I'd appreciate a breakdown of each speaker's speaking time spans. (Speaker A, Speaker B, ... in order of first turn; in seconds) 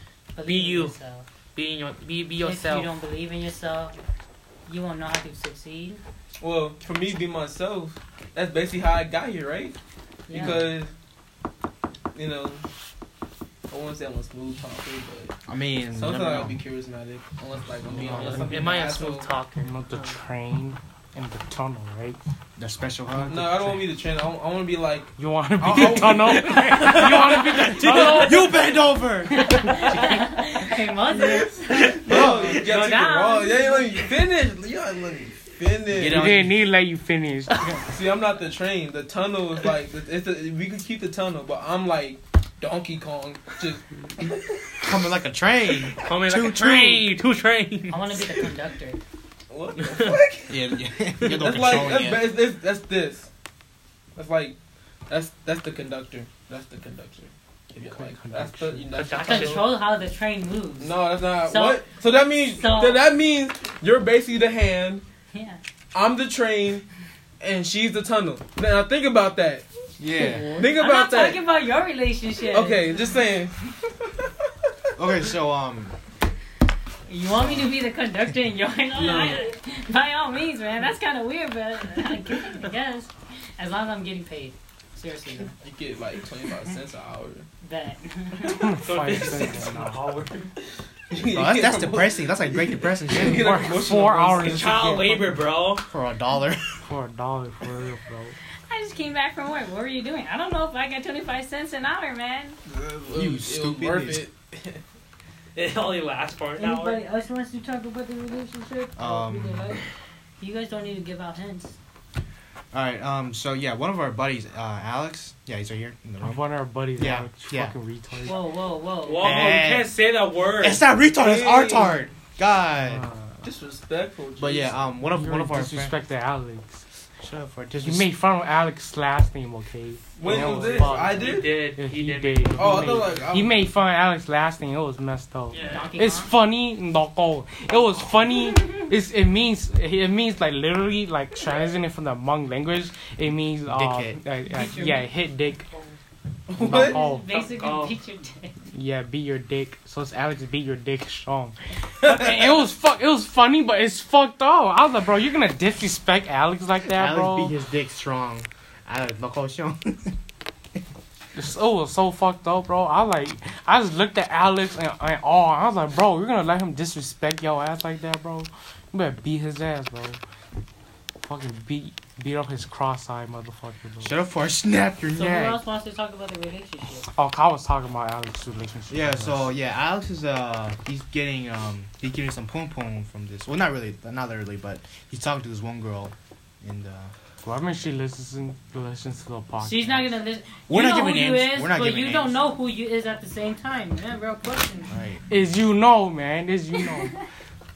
Speaker A: 0.3-1.3, 2.4-4.0, 4.7-6.0, 10.3-10.7, 29.6-34.0, 47.9-49.0, 59.1-61.8, 62.5-63.1, 65.3-65.6, 70.2-73.2, 77.1-85.5, 87.6-88.6, 98.7-102.6, 106.6-109.8, 110.4-111.8, 118.2-119.5, 135.6-136.3, 144.5-145.0, 146.7-148.6, 175.2-177.1, 189.6-194.9
Speaker B: 0.5-1.0, 1.6-2.9, 18.1-20.2, 26.8-28.6, 31.7-32.6, 35.9-36.5, 37.5-37.8, 45.8-48.3, 49.8-50.2, 58.9-59.8, 88.5-90.5, 94.3-95.9, 105.5-107.0, 119.0-120.9, 130.3-133.2, 135.5-136.0, 147.3-148.0
Speaker C: 6.4-9.8, 10.3-10.9, 12.2-12.6, 13.7-15.4, 15.9-19.3, 23.3-27.4, 31.1-36.4, 37.9-44.9, 49.5-50.7, 51.2-53.3, 54.2-54.6, 55.1-59.7, 60.8-65.0, 65.9-66.9, 67.4-69.7, 70.6-71.4, 72.4-74.3, 79.0-79.5, 85.6-87.5, 91.1-94.7, 102.7-104.8, 121.1-122.1, 123.4-124.9, 130.2-131.7, 132.6-133.6, 146.5-147.0
Speaker D: 15.5-16.6, 17.9-18.5, 22.6-23.7, 27.9-30.1, 32.1-32.6, 44.8-47.1, 50.5-52.3, 70.0-70.6, 75.0-76.0, 77.3-77.7, 91.3-93.8, 95.9-96.7, 103.1-104.2, 109.0-109.8, 112.7-117.7, 119.2-120.0, 120.6-123.1, 124.4-126.0, 127.2-128.1, 143.7-144.2, 156.8-160.2, 174.0-175.5, 178.9-187.1, 190.7-192.4, 194.9-195.2
Speaker E: 18.1-18.4, 19.6-22.2, 25.2-28.6, 29.4-29.8, 36.1-37.5, 57.8-58.9, 88.4-90.0, 93.1-95.4, 96.8-98.4, 116.2-118.4, 122.9-123.2, 125.1-126.8, 127.8-145.7, 146.6-147.3, 148.7-157.6, 161.3-170.2, 171.2-174.2, 175.2-175.6, 177.1-179.5, 187.4-190.1, 195.3-197.2